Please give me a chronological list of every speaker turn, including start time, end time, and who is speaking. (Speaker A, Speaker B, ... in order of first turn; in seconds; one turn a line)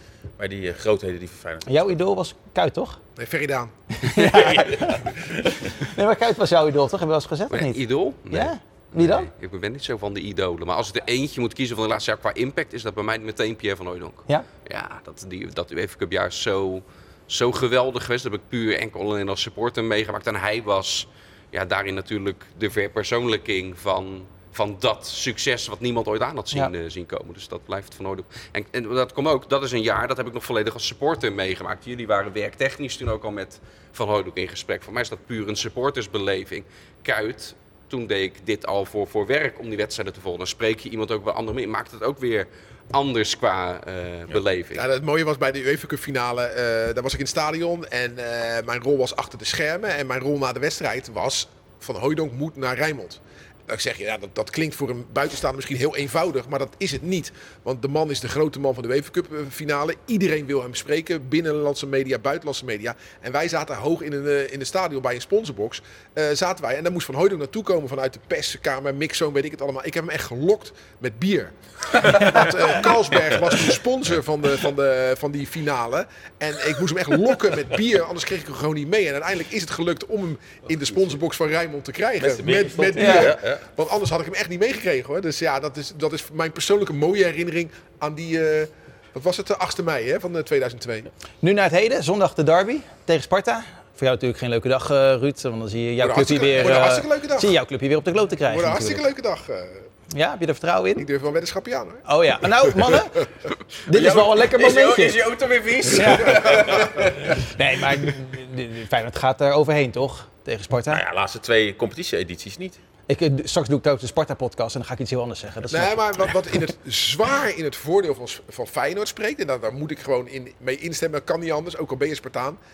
Speaker A: 0.4-1.9
Speaker B: 1.7-3.0
Speaker C: 3.2-3.7
Speaker B: 4.0-9.3
Speaker A: 4.2-5.6
Speaker C: 4.3-4.7
Speaker D: 7.5-44.9
Speaker C: 44.8-91.1
Speaker B: 72.2-72.5
Speaker A: 82.2-83.7
Speaker B: 83.0-83.3
Speaker B: 91.4-99.0
Speaker C: 96.0-97.5
Speaker C: 98.5-99.9
Speaker B: 100.1-101.0
Speaker C: 101.0-103.0
Speaker B: 102.1-103.2
Speaker B: 103.9-105.2
Speaker A: 103.9-107.0
Speaker D: 104.6-107.3
Speaker B: 105.9-106.4
Speaker C: 106.3-107.0
Speaker B: 107.3-111.0
Speaker A: 110.9-112.8
Speaker B: 113.1-116.3
Speaker C: 115.7-122.6